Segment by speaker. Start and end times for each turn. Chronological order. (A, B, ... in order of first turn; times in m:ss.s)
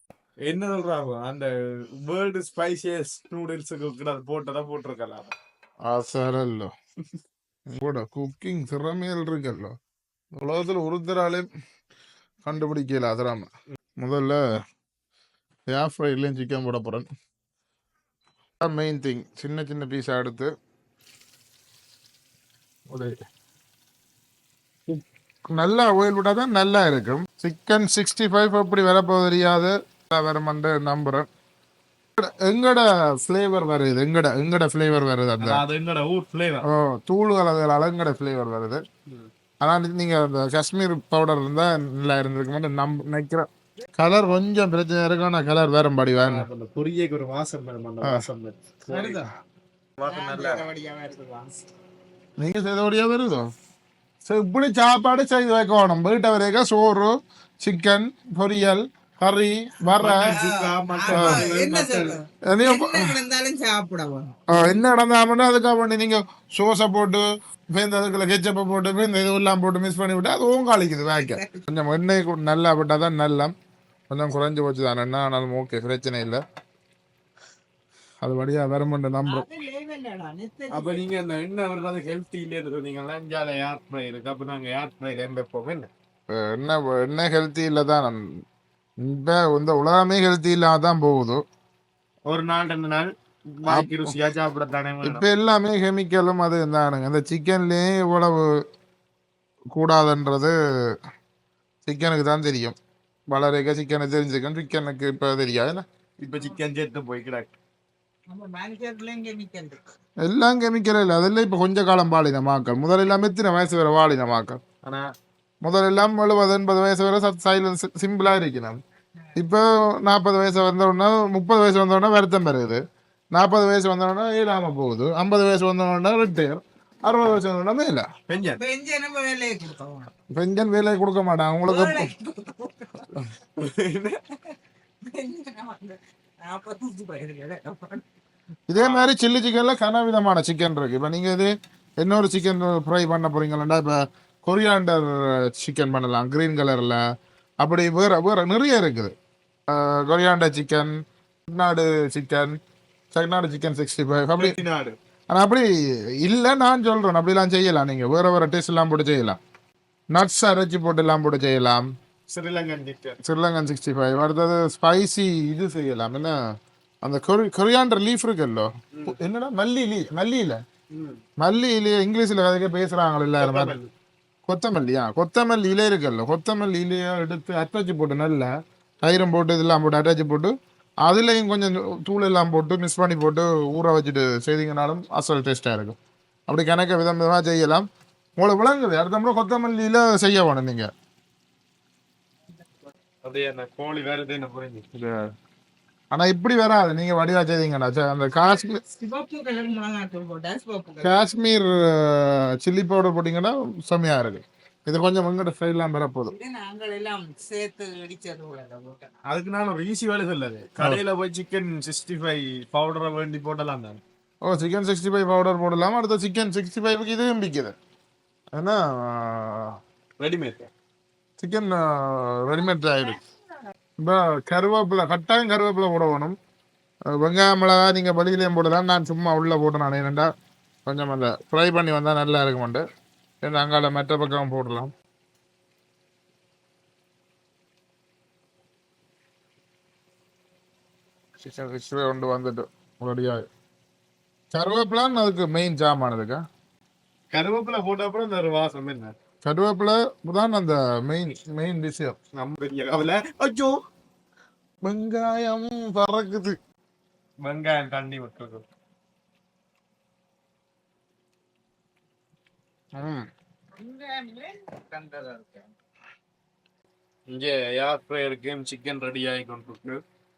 0:00.4-0:05.3 A
0:05.8-0:06.7 B
0:07.7-0:09.8 B
0:10.3-0:11.5 B
0:12.4-0:14.4 B
0:15.7-0:17.1 B
0:18.6-0:20.5 B
0:22.9-0:23.2 B
0:25.5-0:31.3 B
0:32.2-0:35.6 B
0:35.4-0:36.6 A
0:36.6-0:38.8 B
0:39.6-0:46.5 B
0:46.2-0:49.2 A
0:48.9-0:49.3 C
0:50.0-0:50.6 A
0:50.0-0:51.6 C
0:52.4-0:53.5 B
0:54.2-1:00.3 B
1:00.0-1:02.2 A
1:00.0-1:04.4 C
1:01.1-1:01.5 B
1:02.4-1:03.1 B
1:04.5-1:07.2 B
1:07.7-1:13.5 B
1:11.2-1:11.6 C
1:14.1-1:16.4 B
1:18.2-1:19.5 B
1:19.3-1:21.0 C
1:20.7-1:25.9 A
1:26.3-1:28.2 B
1:29.0-1:31.4 B
1:32.3-1:35.2 A
1:33.6-1:34.1 B
1:35.0-1:38.5 B
1:39.7-1:40.5 B
1:41.8-1:42.8 B
1:43.3-1:45.8 B
1:46.2-1:47.5 A
1:48.3-1:49.9 C
1:50.2-1:54.6 B
1:54.8-1:55.1 A
1:55.6-1:58.8 B
1:59.4-2:02.8 B
2:03.3-2:08.1 B
2:08.3-2:08.6 A
2:08.6-2:10.1 C
2:10.3-2:12.1 B
2:11.7-2:13.1 C
2:13.6-2:14.2 A
2:15.0-2:18.0 C
2:18.7-2:27.0 B
2:18.8-2:19.1 A
2:27.6-2:29.1 B
2:29.7-2:30.9 B
2:31.5-2:32.6 B
2:33.1-2:34.5 B
2:34.4-2:35.0 A
2:35.3-2:39.4 B
2:40.1-2:41.9 B
2:42.3-2:43.2 A
2:43.2-2:46.3 B
2:47.0-2:50.6 B
2:50.9-2:51.2 A
2:51.4-2:53.8 B
2:53.4-2:53.9 A
2:54.5-2:58.5 B
2:59.0-3:00.5 B
3:01.0-3:06.0 B
3:06.5-3:07.8 B
3:08.4-3:10.9 B
3:13.2-3:14.8 A
3:14.9-3:15.3 B
3:16.1-3:18.8 B
3:18.4-3:21.2 C
3:21.0-3:26.3 B
3:26.3-3:29.1 C
3:29.2-3:34.0 A
3:34.4-3:37.7 B
3:38.5-3:39.8 B
3:40.2-3:40.7 A
3:41.4-3:43.2 B
3:44.0-3:46.4 B
3:47.1-3:50.3 B
3:50.8-3:52.8 B
3:53.4-3:54.9 B
4:01.4-4:03.5 B
4:04.5-4:06.4 B
4:07.3-4:09.1 A
4:09.4-4:12.2 B
4:12.4-4:13.8 A
4:14.8-4:16.6 B
4:17.4-4:18.6 A
4:23.0-4:23.3 B
4:23.7-4:25.7 C
4:27.3-4:30.0 A